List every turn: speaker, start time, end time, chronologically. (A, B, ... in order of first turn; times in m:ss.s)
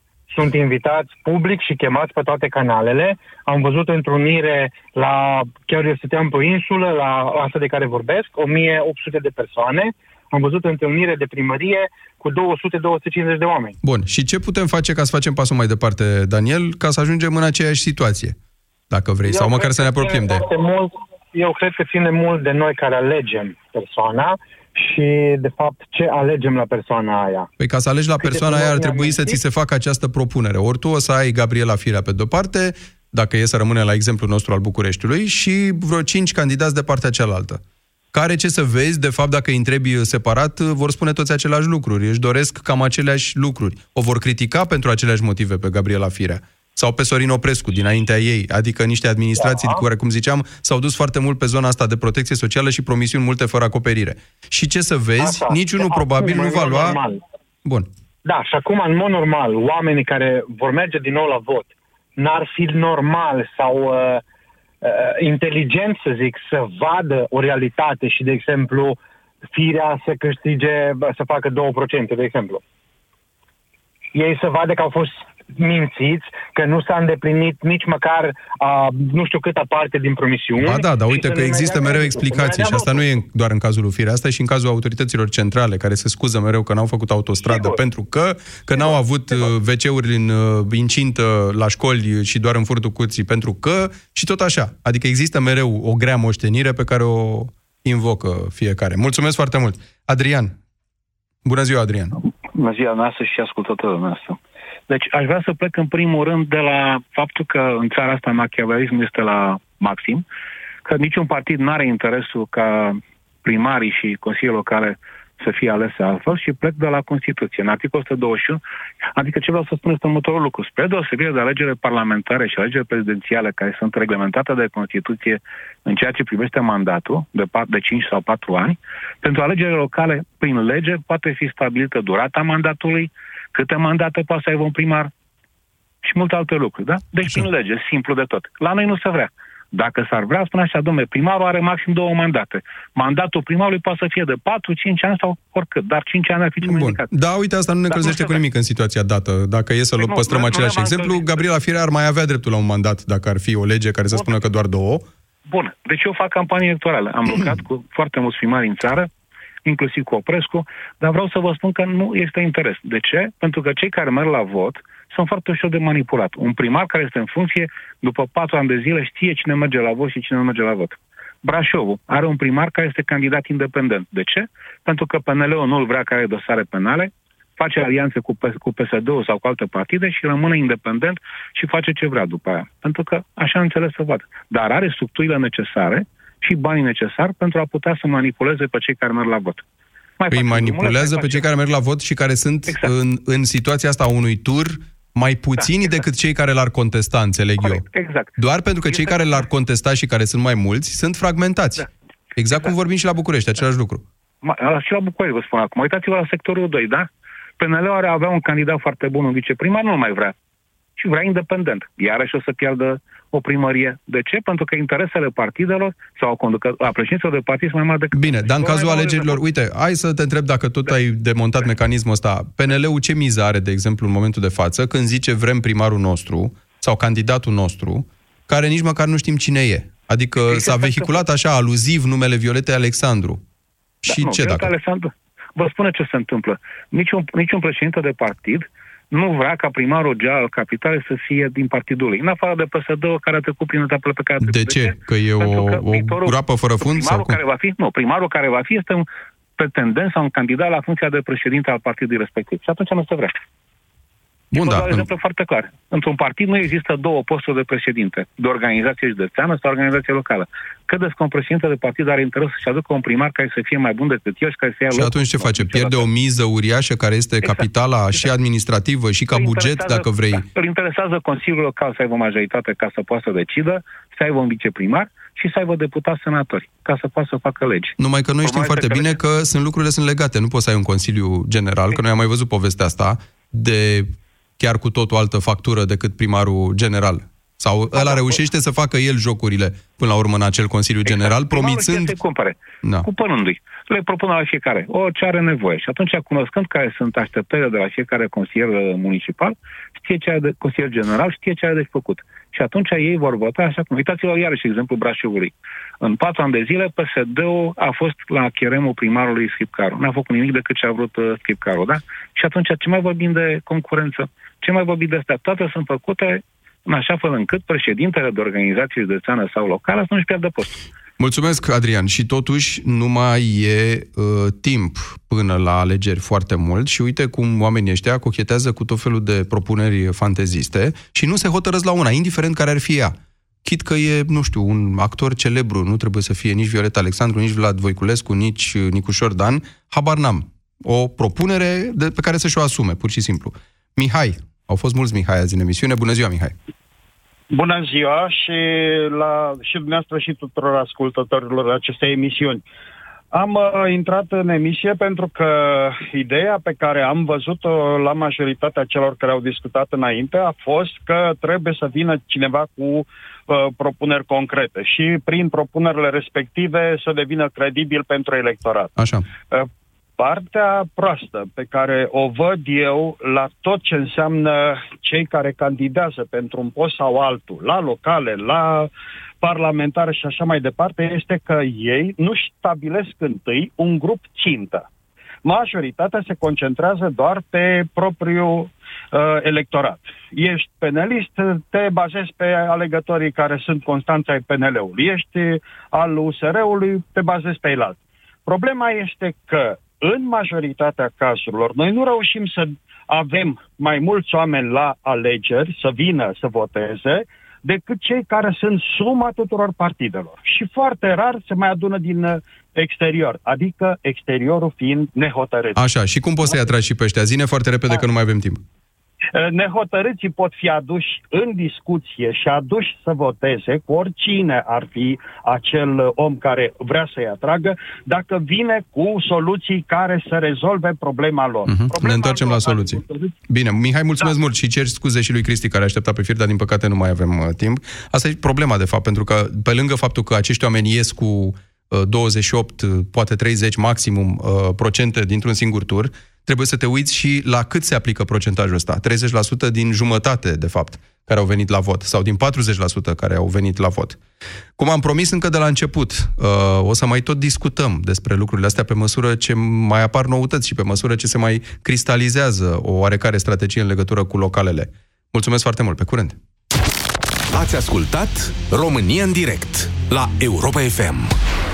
0:00.3-0:13.8 A
0:13.8-0:18.4 B
0:18.9-0:20.4 B
0:19.2-0:27.5 A
0:27.6-0:37.6 B
0:28.2-0:29.4 A
0:38.1-0:57.0 B
0:49.4-0:49.8 A
0:55.2-0:57.2 A
0:58.2-1:04.2 A
1:04.8-1:09.0 A
1:09.5-1:12.6 A
1:14.1-1:23.0 A
1:20.6-1:40.5 B
1:27.5-1:27.8 A
1:28.8-1:29.4 A
1:41.4-1:42.1 B
1:42.5-1:44.4 C
1:44.9-1:50.2 C
1:50.8-1:58.6 C
1:59.2-2:15.1 C
2:16.0-2:27.1 C
2:26.6-2:35.0 B
2:27.9-2:28.4 C
2:30.0-2:31.5 C
2:35.5-2:39.1 C
2:39.6-3:09.6 C
3:10.2-3:11.5 C
3:10.3-3:17.8 B
3:12.7-3:12.9 C
3:15.6-3:16.0 C
3:17.6-3:18.4 C
3:18.4-3:21.8 B
3:18.9-3:19.5 C
3:22.4-3:24.0 B
3:24.4-3:27.1 C
3:27.6-3:30.3 C
3:31.0-3:39.4 C
3:38.1-3:53.4 B
3:50.4-3:51.2 C
3:54.1-3:54.7 B
3:54.1-4:13.4 C
4:04.4-4:07.4 B
4:14.5-4:26.1 C
4:14.6-4:15.1 B
4:24.9-4:30.4 B
4:27.4-4:28.3 C
4:29.3-4:39.2 C
4:38.0-4:52.2 B
4:47.9-4:48.4 C
4:51.1-5:20.8 C
5:21.2-5:46.5 B
5:47.5-5:52.6 D
5:53.3-6:08.9 D
6:09.0-6:09.3 B
6:09.5-6:18.9 D
6:19.4-6:24.9 D
6:25.4-6:55.8 D
6:55.8-6:58.6 B
6:59.3-7:13.3 D
7:11.7-7:34.2 B
7:34.8-7:46.4 B
7:47.5-7:51.4 E